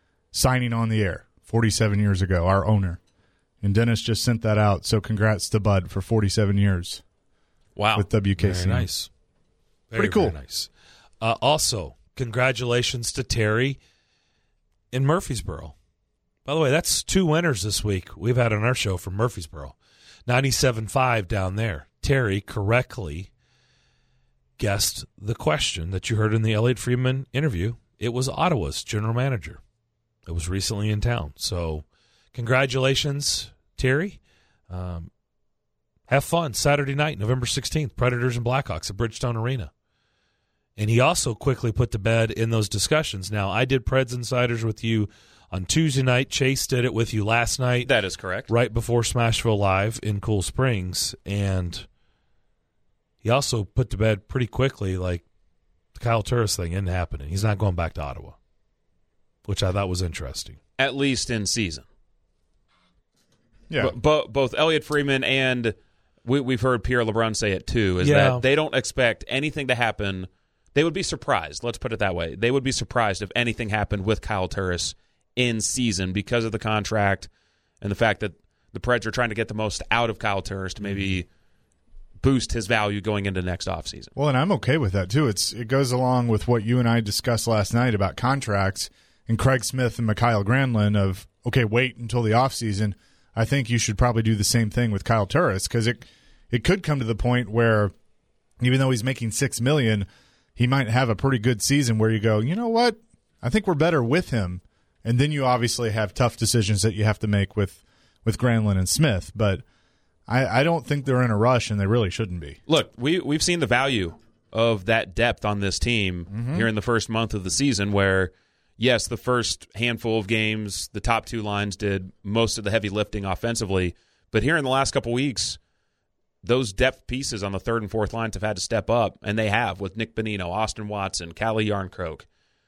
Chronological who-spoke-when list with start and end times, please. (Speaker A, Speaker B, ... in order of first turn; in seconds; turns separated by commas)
Speaker A: 0.3-3.0, Speaker A: 3.6-7.0, Speaker B: 7.8-8.1, Speaker A: 7.9-8.9, Speaker C: 8.4-9.1, Speaker C: 9.9-10.7, Speaker A: 10.0-10.3, Speaker C: 11.2-13.8, Speaker C: 14.9-15.7, Speaker C: 16.4-23.3, Speaker C: 24.6-29.6, Speaker C: 30.3-35.1, Speaker C: 36.1-39.7, Speaker C: 40.8-47.9, Speaker B: 47.8-48.5, Speaker C: 48.5-51.9, Speaker C: 53.2-55.2, Speaker C: 56.0-58.4, Speaker C: 59.5-60.6, Speaker B: 60.8-61.8, Speaker B: 63.8-77.3, Speaker C: 68.0-68.4, Speaker B: 77.8-81.3, Speaker B: 82.2-84.1, Speaker A: 84.2-97.9, Speaker A: 98.6-109.6, Speaker A: 110.3-112.6, Speaker B: 112.7-125.6, Speaker A: 116.3-116.7, Speaker B: 126.4-132.2